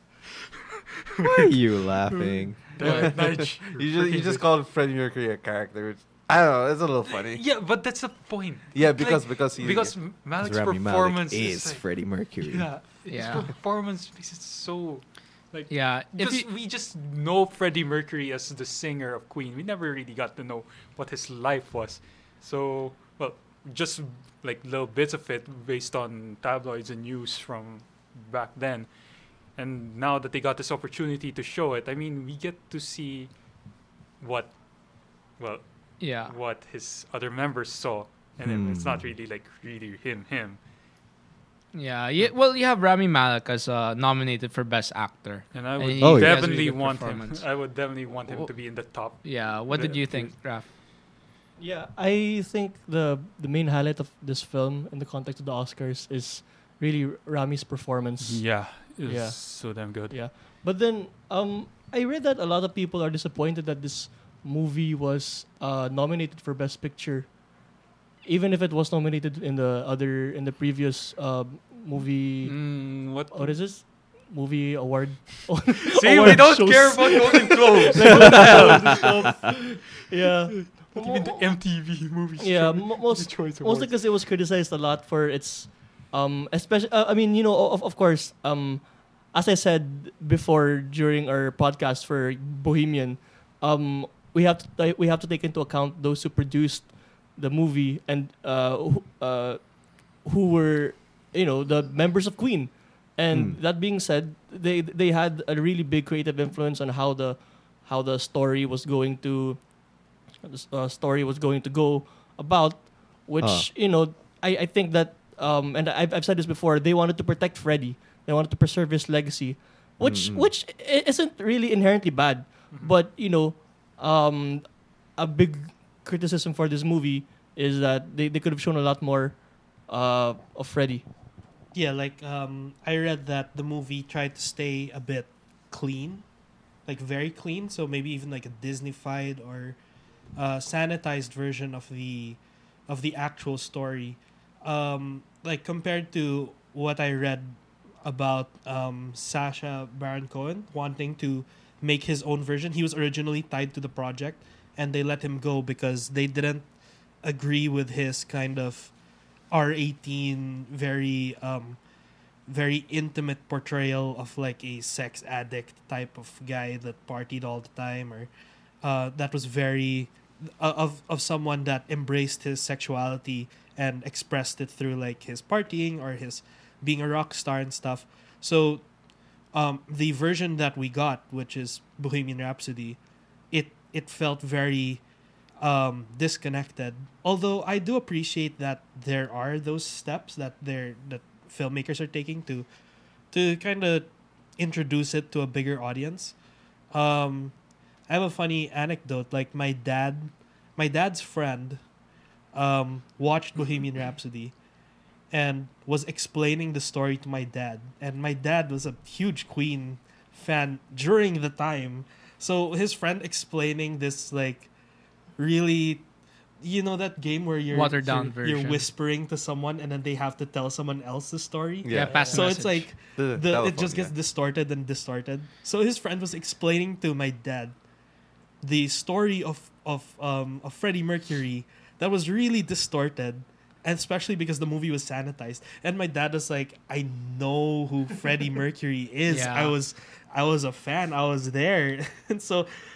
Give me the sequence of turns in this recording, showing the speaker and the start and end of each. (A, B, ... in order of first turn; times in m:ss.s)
0:01.1-0:01.5 A
0:01.2-0:03.0 B
0:02.1-0:04.4 A
0:02.8-0:07.4 C
0:07.0-0:11.9 A
0:08.7-0:09.9 C
0:10.4-0:12.7 B
0:12.4-0:28.9 A
0:13.1-0:13.5 D
0:15.7-0:16.5 D
0:29.5-0:33.3 A
0:34.2-0:34.6 A
0:35.4-0:40.6 A
0:36.0-0:36.3 D
0:38.4-0:39.1 B
0:41.7-0:47.5 D
0:45.5-0:50.3 A
0:46.0-0:46.4 B
0:48.3-0:50.7 D
0:51.6-1:07.4 E
0:58.2-1:00.3 A
1:08.2-1:21.8 E
1:12.4-1:13.6 A
1:15.8-1:19.6 A
1:20.5-1:24.0 A
1:22.4-1:49.7 E
1:43.3-1:43.6 B
1:50.4-2:11.0 E
1:53.4-1:53.7 B
2:00.0-2:00.5 B
2:11.7-2:16.2 F
2:16.9-2:19.8 F
2:20.4-2:36.7 F
2:37.2-2:38.9 F
2:39.5-2:41.8 F
2:42.5-2:48.3 F
2:48.8-2:58.9 F
2:59.5-3:03.0 F
3:03.5-3:05.0 F
3:05.6-3:12.7 F
3:13.3-3:16.4 F
3:16.9-3:17.5 F
3:18.1-3:21.8 F
3:22.5-3:24.5 F
3:25.3-3:34.7 F
3:35.4-3:36.1 F
3:36.6-3:47.8 F
3:37.7-3:38.9 D
3:41.8-3:42.4 C
3:41.9-3:42.9 D
3:43.2-3:44.1 C
3:48.6-4:02.7 F
3:59.3-3:59.8 D